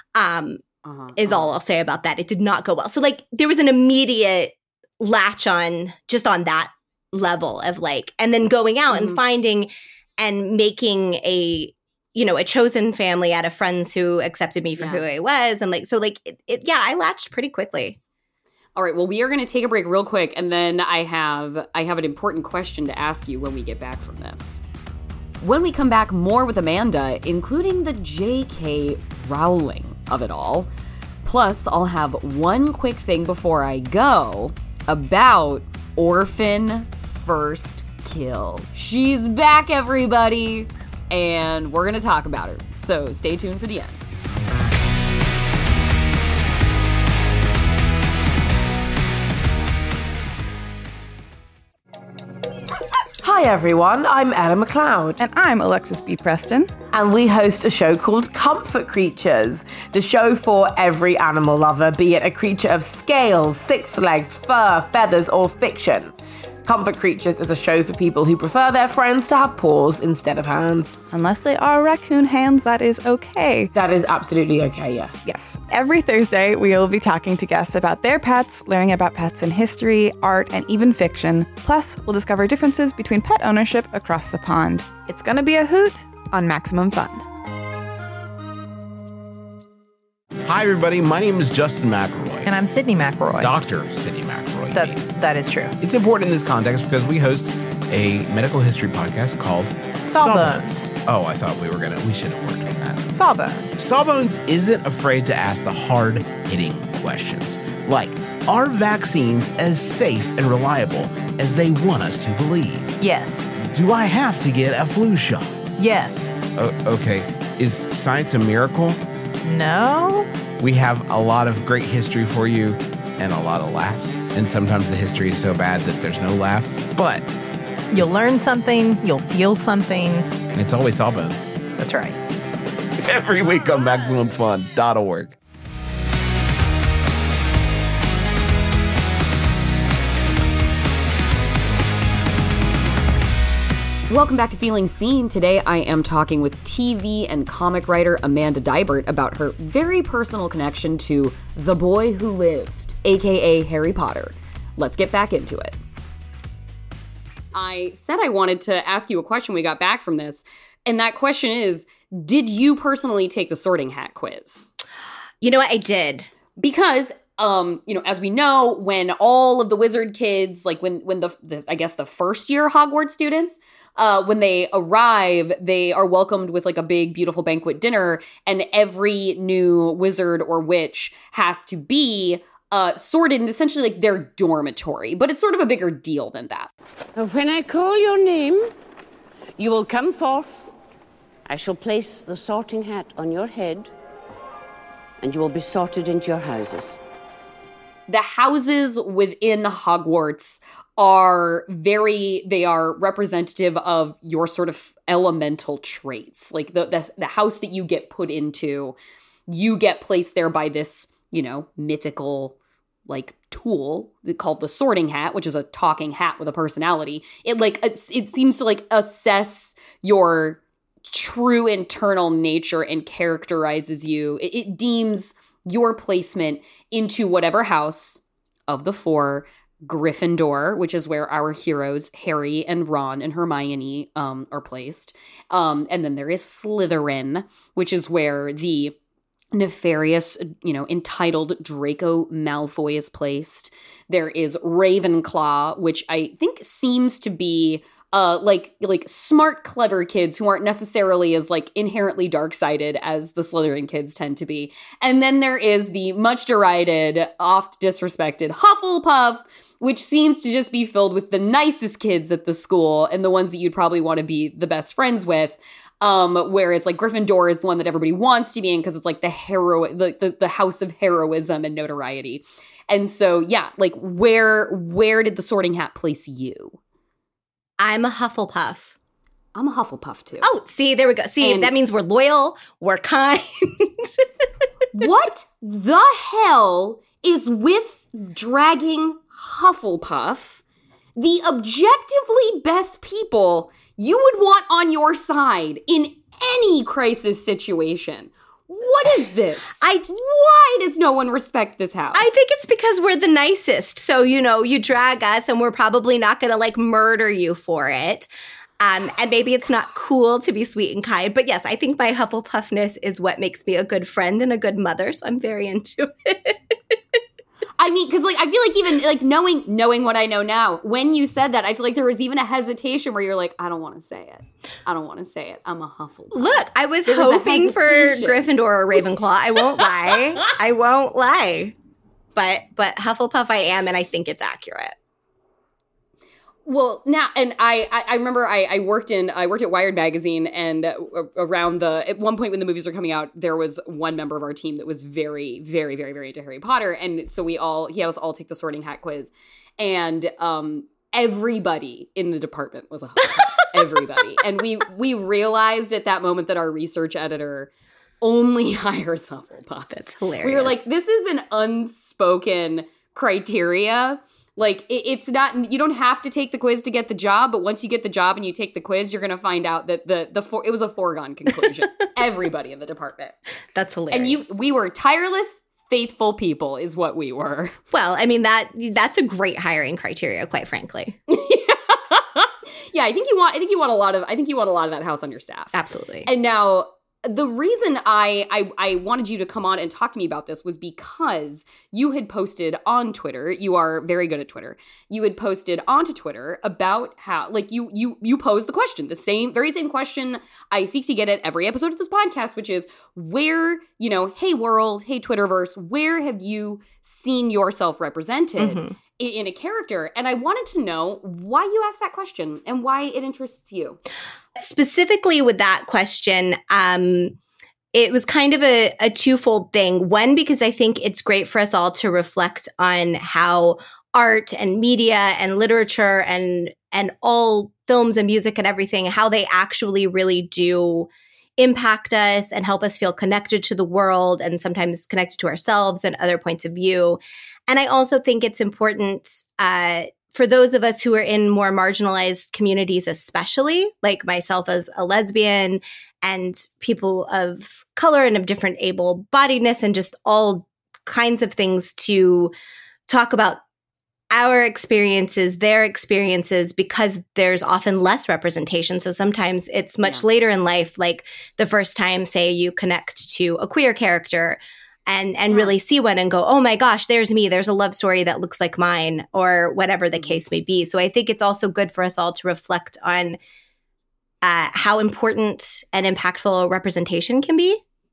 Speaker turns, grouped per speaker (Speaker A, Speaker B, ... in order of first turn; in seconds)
Speaker A: 0.1-0.6, 1.1-18.0, 165.4-166.3, 277.8-279.0, 280.4-284.5, 299.8-300.1, 302.1-316.7, 326.3-331.8, 332.4-334.9, 359.9-360.8, 373.8-374.6, 377.9-381.2, 385.7-386.3, 408.6-408.9, 414.6-417.4, 417.9-452.5, 453.1-453.6, 454.3-473.4, 474.4-477.8
Speaker B: 0.8-1.5, 8.9-9.2, 14.8-15.1, 18.8-24.6, 25.4-30.7, 31.2-44.0, 144.1-155.8, 157.5-164.7, 166.6-186.7, 198.1-208.9, 209.5-212.6, 213.1-238.9, 239.5-276.8, 279.6-280.5, 281.4-281.7, 284.9-290.6, 291.2-302.5, 317.8-328.5, 329.8-330.2, 336.7-373.4, 374.1-377.8, 381.3-385.8, 386.3-414.0, 465.5-465.8, 470.1-470.4
Speaker C: 53.2-55.2, 56.9-71.0, 73.7-75.2
Speaker D: 55.2-56.7, 71.1-73.7, 75.5-87.2, 103.1-103.8
Speaker E: 90.5-92.4, 93.4-95.0, 95.8-103.1, 103.8-112.9, 113.6-115.7, 116.5-119.0, 120.6-127.3, 130.4-131.7, 133.0-135.3
Speaker F: 92.5-93.5, 94.8-95.8, 100.1-100.8, 113.0-113.5, 115.8-116.4, 119.5-120.3, 127.9-130.4, 131.7-132.2
Speaker G: 187.2-188.7, 189.6-190.7, 191.5-193.9, 195.2-197.0